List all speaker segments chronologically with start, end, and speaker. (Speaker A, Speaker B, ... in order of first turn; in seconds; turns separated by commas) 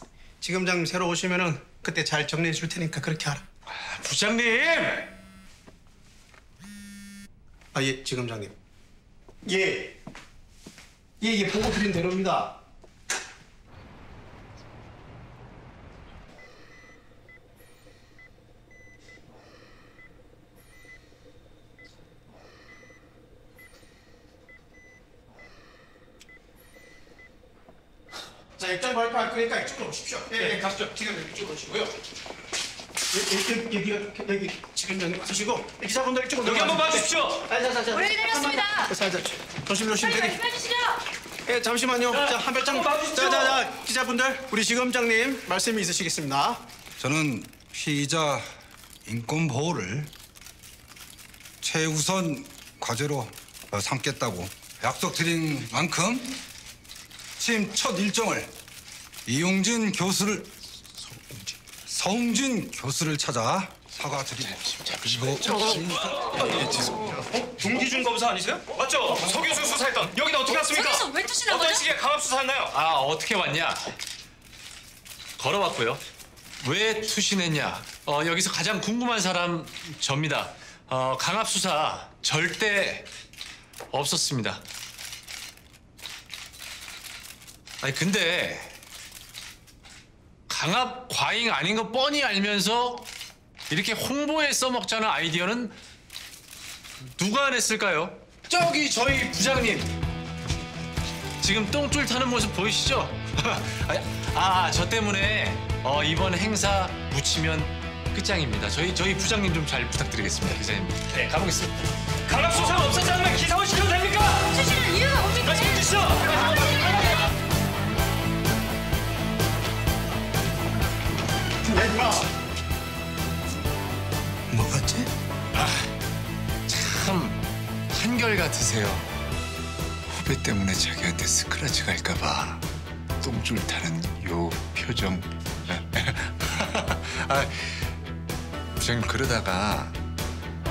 Speaker A: 0.4-3.5, Speaker B: 3.7-5.1, Speaker A: 7.7-8.6, Speaker A: 9.4-10.0, Speaker A: 11.2-12.6, Speaker A: 28.6-31.9, Speaker A: 33.1-40.4, Speaker C: 36.5-37.3, Speaker D: 37.9-38.9, Speaker D: 40.0-41.0, Speaker A: 41.5-46.7, Speaker E: 47.0-48.5, Speaker E: 49.0-50.1, Speaker E: 51.6-56.4, Speaker E: 57.4-58.5, Speaker E: 59.3-60.5, Speaker E: 61.8-66.1, Speaker C: 66.2-72.7, Speaker D: 70.5-71.9, Speaker B: 72.7-73.9, Speaker B: 75.4-76.0, Speaker B: 76.6-83.1, Speaker B: 83.9-84.6, Speaker B: 87.8-88.8, Speaker B: 90.5-93.1, Speaker B: 93.7-95.8, Speaker B: 97.2-99.9, Speaker B: 101.4-111.9, Speaker C: 112.3-114.3, Speaker D: 114.5-117.2, Speaker C: 115.5-116.1, Speaker A: 121.6-122.3, Speaker A: 124.5-125.1, Speaker B: 125.5-125.9, Speaker B: 126.7-127.4, Speaker B: 127.9-129.1, Speaker B: 130.2-132.6, Speaker B: 133.2-137.9, Speaker B: 138.8-140.0